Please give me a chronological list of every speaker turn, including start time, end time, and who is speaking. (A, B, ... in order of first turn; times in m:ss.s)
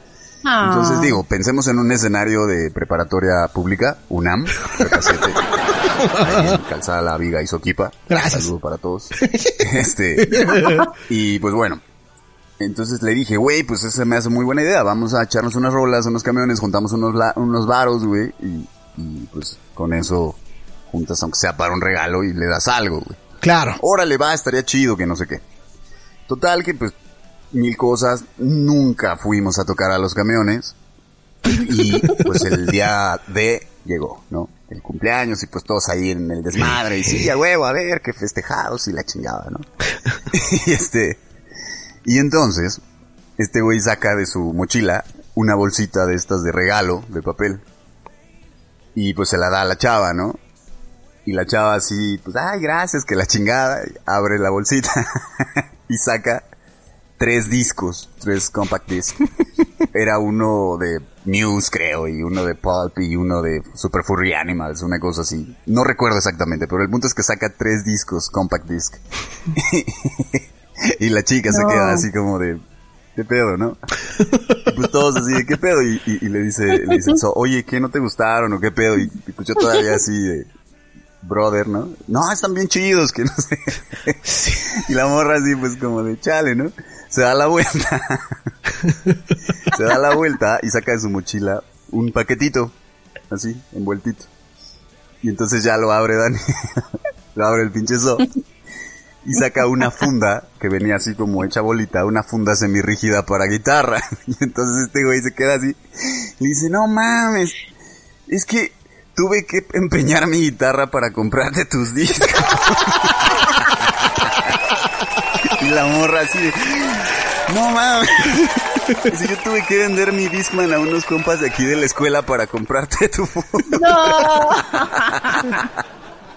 0:00.4-0:01.2 A
0:00.6-0:05.4 B
0:05.8-0:06.6 C
0:06.2-0:11.8 B
0:08.1-0:08.5 C
0:09.2-0:10.9 C
0:12.6-0:20.4 B
0:20.9-0:23.2 B
0:23.4-0:23.8 C
0:23.8-0:25.4 B
0:26.3-0:26.9 B
0:27.5-0:30.8 B
0:31.5-0:39.7 B
0:40.3-0:41.2 B
0:42.0-0:42.8 B
0:43.4-0:47.6 B
0:49.0-0:50.4 B
0:51.3-0:56.4 B
0:57.2-0:59.2 B
0:59.9-1:09.0 B
1:09.5-1:10.4 B
1:11.0-1:12.6 B
1:11.5-1:12.1 A
1:13.2-1:13.8 B
1:14.6-1:20.5 B
1:21.2-1:28.2 B
1:24.3-1:24.7 C
1:29.6-1:32.7 B
1:33.3-1:34.3 B
1:35.2-1:38.3 B
1:39.2-1:45.8 B
1:46.4-1:47.6 B
1:48.3-1:54.5 B
1:55.5-2:05.6 B
2:03.7-2:05.7 A